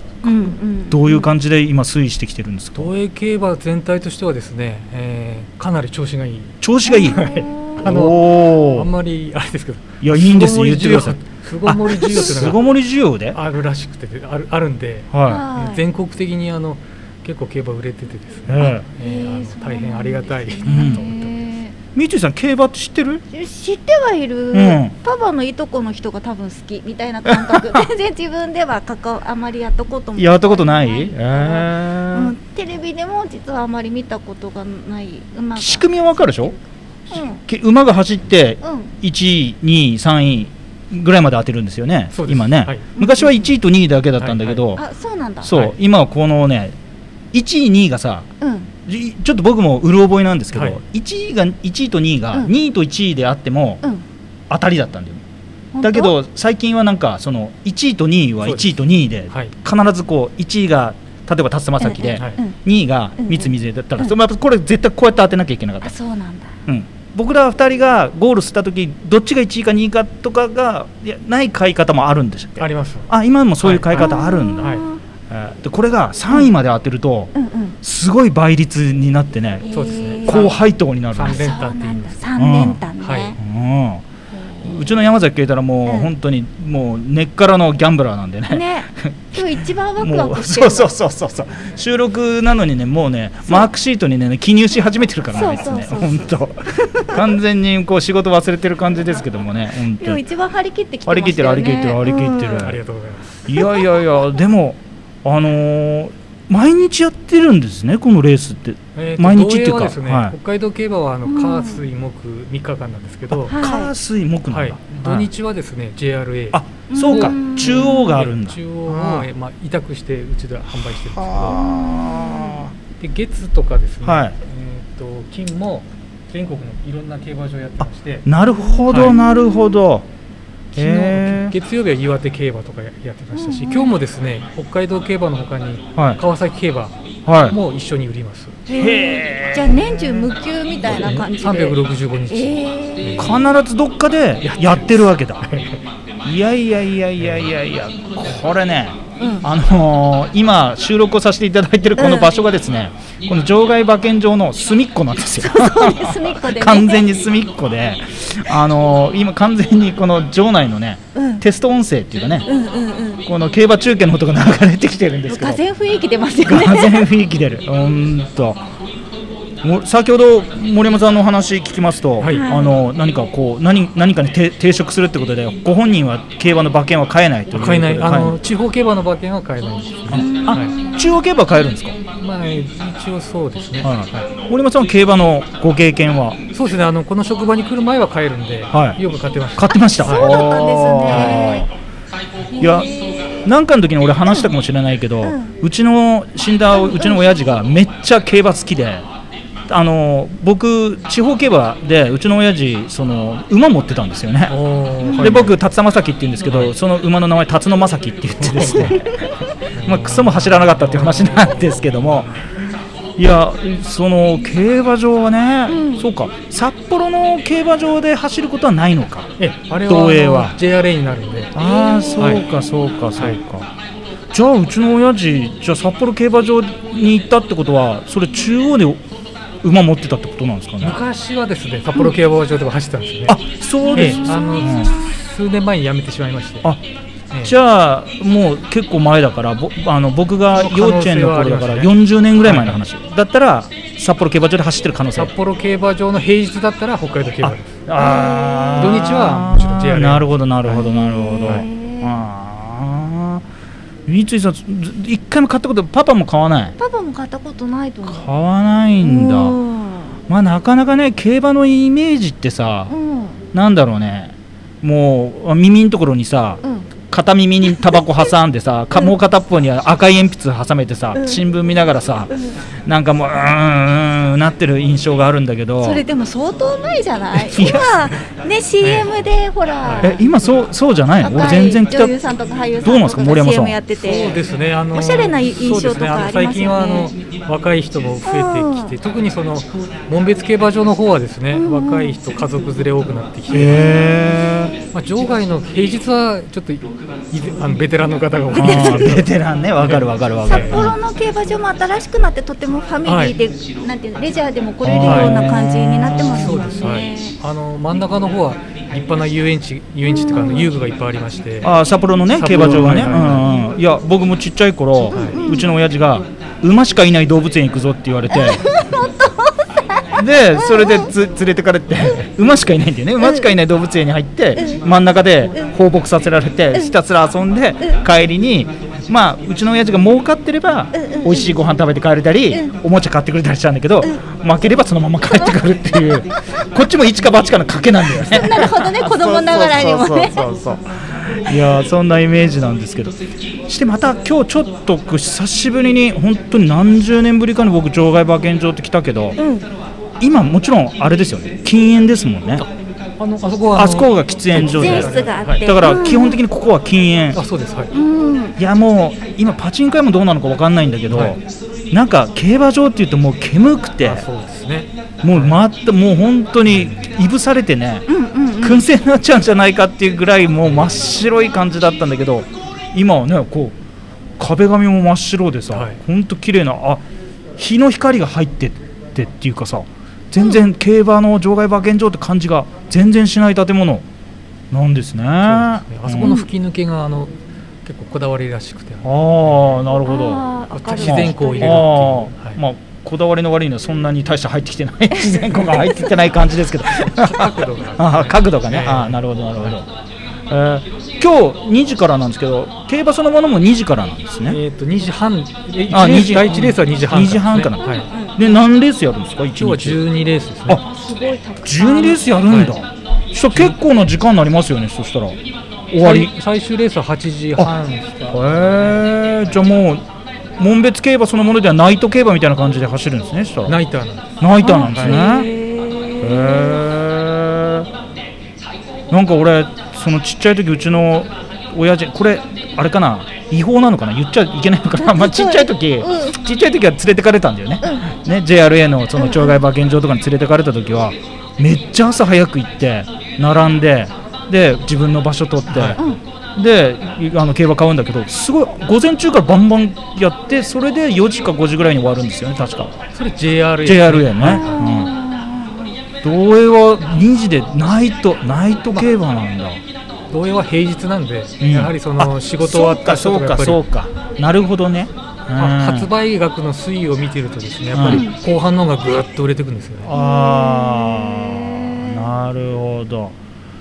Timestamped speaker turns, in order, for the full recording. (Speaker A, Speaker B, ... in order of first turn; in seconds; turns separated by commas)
Speaker A: 0.2-1.3, Speaker B: 0.9-2.9, Speaker C: 2.8-12.6, Speaker B: 6.6-7.3, Speaker A: 6.9-7.8, Speaker B: 7.8-8.9, Speaker B: 10.0-13.4, Speaker C: 13.3-21.3, Speaker B: 15.1-15.4, Speaker A: 15.3-15.8, Speaker B: 18.5-18.8, Speaker A: 18.8-21.7, Speaker B: 20.6-21.0, Speaker B: 21.9-23.2, Speaker A: 23.3-36.5, Speaker B: 24.5-24.9, Speaker B: 27.2-27.9, Speaker B: 30.1-32.4, Speaker B: 35.5-36.5, Speaker A: 37.1-37.4, Speaker B: 37.1-44.8, Speaker A: 38.6-38.9, Speaker C: 42.1-42.9, Speaker A: 43.0-43.5, Speaker C: 44.2-44.6, Speaker A: 44.8-45.5, Speaker B: 45.4-46.7, Speaker B: 47.3-48.3, Speaker A: 48.4-48.7, Speaker B: 48.9-53.8, Speaker C: 50.5-50.8, Speaker B: 54.5-55.2, Speaker A: 55.7-56.1, Speaker B: 55.8-65.9, Speaker C: 58.4-59.5, Speaker A: 61.8-62.5, Speaker C: 62.1-62.4, Speaker A: 63.2-64.1, Speaker A: 65.8-66.6, Speaker B: 66.7-74.7, Speaker C: 72.6-74.8, Speaker A: 74.0-75.0, Speaker B: 75.3-79.7, Speaker A: 77.3-77.8, Speaker A: 79.6-80.5, Speaker C: 79.7-80.5, Speaker B: 80.2-81.5, Speaker C: 81.1-82.2, Speaker A: 81.2-83.4, Speaker B: 82.4-82.8, Speaker C: 83.0-83.3, Speaker B: 83.4-84.0, Speaker A: 84.3-84.9, Speaker B: 84.6-100.2, Speaker A: 85.8-86.1, Speaker A: 88.5-90.9, Speaker A: 95.3-97.2, Speaker A: 100.0-102.8, Speaker B: 101.0-102.8, Speaker C: 102.6-103.5, Speaker B: 103.5-110.3, Speaker A: 103.5-103.8, Speaker C: 108.9-113.5, Speaker A: 111.2-111.8, Speaker B: 113.3-115.3, Speaker A: 113.5-113.9, Speaker C: 114.5-121.6, Speaker B: 116.5-119.3, Speaker A: 116.9-118.1, Speaker B: 120.9-122.7, Speaker A: 121.6-122.6, Speaker C: 123.0-128.2, Speaker B: 124.0-124.3, Speaker B: 128.2-130.1, Speaker A: 128.5-129.8, Speaker C: 128.9-129.2, Speaker C: 130.7-138.6, Speaker B: 130.8-131.5, Speaker A: 133.3-134.0, Speaker B: 135.9-136.2, Speaker B: 137.2-137.6, Speaker A: 138.7-141.8, Speaker B: 138.7-139.8, Speaker C: 140.8-143.4, Speaker A: 142.3-143.3, Speaker B: 143.2-145.5, Speaker C: 144.4-145.8, Speaker B: 146.2-162.5, Speaker C: 147.2-147.5, Speaker A: 149.2-149.4, Speaker A: 152.0-152.4, Speaker A: 155.4-157.1, Speaker A: 161.1-161.4, Speaker A: 162.5-163.2, Speaker B: 163.2-165.6, Speaker A: 165.3-167.1, Speaker B: 166.4-168.7, Speaker B: 169.6-178.4, Speaker C: 172.2-172.5, Speaker A: 172.2-172.8, Speaker C: 177.5-180.8, Speaker B: 180.1-182.0, Speaker A: 180.1-181.2, Speaker C: 182.1-184.3, Speaker B: 183.8-186.4, Speaker C: 186.5-190.4, Speaker B: 188.7-189.0, Speaker B: 189.6-191.7, Speaker A: 190.0-191.7, Speaker C: 191.1-191.4, Speaker A: 192.5-193.3, Speaker B: 192.6-199.0, Speaker A: 195.2-195.5, Speaker A: 196.7-197.3, Speaker B: 199.7-204.6, Speaker C: 204.5-205.6, Speaker A: 205.0-205.4, Speaker B: 205.2-212.3, Speaker C: 206.4-206.7, Speaker C: 208.4-208.9, Speaker C: 209.8-212.3, Speaker B: 213.2-219.3, Speaker A: 215.7-216.1, Speaker C: 219.4-221.5, Speaker B: 219.8-220.6, Speaker B: 221.5-223.7, Speaker A: 221.6-222.4, Speaker C: 222.2-222.4, Speaker B: 224.3-229.0, Speaker B: 229.6-231.0, Speaker C: 230.8-236.7, Speaker B: 233.2-234.9, Speaker A: 234.0-234.8, Speaker B: 237.4-245.3, Speaker C: 240.5-241.9, Speaker C: 242.4-242.8, Speaker C: 245.1-247.8, Speaker B: 247.5-253.4, Speaker A: 248.0-248.9, Speaker C: 248.7-250.8, Speaker A: 250.7-252.2, Speaker B: 254.1-256.7, Speaker A: 256.8-258.3, Speaker B: 258.1-259.6, Speaker A: 259.0-260.1, Speaker B: 260.3-262.9, Speaker A: 262.9-263.4, Speaker B: 263.5-276.0, Speaker A: 267.7-268.0, Speaker A: 271.1-271.4, Speaker A: 272.3-272.6, Speaker A: 275.8-280.2, Speaker B: 277.5-277.9, Speaker C: 278.8-279.1, Speaker C: 279.8-280.1, Speaker B: 280.0-282.1, Speaker A: 281.2-284.4, Speaker B: 282.8-283.8, Speaker C: 283.9-294.0, Speaker A: 284.9-287.1, Speaker A: 288.2-288.9, Speaker A: 291.5-292.2, Speaker B: 293.5-294.7, Speaker C: 294.9-300.9, Speaker B: 298.5-300.9, Speaker A: 298.6-299.2, Speaker A: 300.4-307.3, Speaker C: 303.0-303.3, Speaker B: 304.8-306.6, Speaker C: 305.0-305.5, Speaker C: 306.2-311.7, Speaker A: 310.1-310.7, Speaker B: 311.6-318.9, Speaker C: 312.3-313.5, Speaker C: 315.1-315.4, Speaker A: 315.1-315.8, Speaker A: 318.3-320.0, Speaker B: 320.1-349.4, Speaker A: 320.6-321.1, Speaker A: 323.2-323.5, Speaker A: 324.5-324.8, Speaker A: 330.9-331.5, Speaker A: 338.1-340.5, Speaker A: 349.4-349.7, Speaker B: 350.2-352.6, Speaker C: 353.2-355.6, Speaker B: 353.7-357.4, Speaker A: 354.6-356.4, Speaker C: 357.3-357.9, Speaker A: 357.9-358.6, Speaker B: 358.6-361.4, Speaker C: 361.1-361.3, Speaker B: 361.9-364.3, Speaker C: 364.0-365.6, Speaker B: 365.2-368.1, Speaker C: 366.7-367.0, Speaker A: 368.1-368.8, Speaker B: 368.6-373.8, Speaker B: 374.4-377.0, Speaker C: 375.7-376.0, Speaker B: 377.6-384.1, Speaker A: 380.4-380.6, Speaker B: 384.7-386.4, Speaker C: 385.4-389.8, Speaker A: 386.2-386.5, Speaker B: 389.0-399.9, Speaker A: 390.1-391.9, Speaker C: 390.7-392.6, Speaker A: 395.3-396.2, Speaker C: 397.0-399.7, Speaker B: 400.5-404.6, Speaker C: 404.5-408.1, Speaker B: 405.9-407.8, Speaker A: 407.8-408.5, Speaker B: 408.3-410.0, Speaker C: 409.6-410.8, Speaker A: 410.8-412.3, Speaker B: 411.6-415.4, Speaker C: 412.5-412.7, Speaker C: 413.5-413.7, Speaker B: 415.9-416.3, Speaker C: 416.0-419.0, Speaker B: 418.3-420.0, Speaker B: 420.6-423.8, Speaker C: 423.6-425.2, Speaker B: 424.4-425.5, Speaker A: 424.6-426.8, Speaker B: 426.2-427.9, Speaker B: 429.1-452.9, Speaker A: 435.0-436.4, Speaker A: 439.2-439.6, Speaker C: 445.7-446.0, Speaker C: 453.1-454.8, Speaker B: 453.8-455.1, Speaker A: 454.4-456.0, Speaker B: 456.2-459.8, Speaker C: 460.3-463.8, Speaker B: 461.6-466.1, Speaker C: 465.6-470.1, Speaker B: 467.9-468.3, Speaker A: 468.0-468.4, Speaker B: 470.1-473.4, Speaker A: 470.1-472.3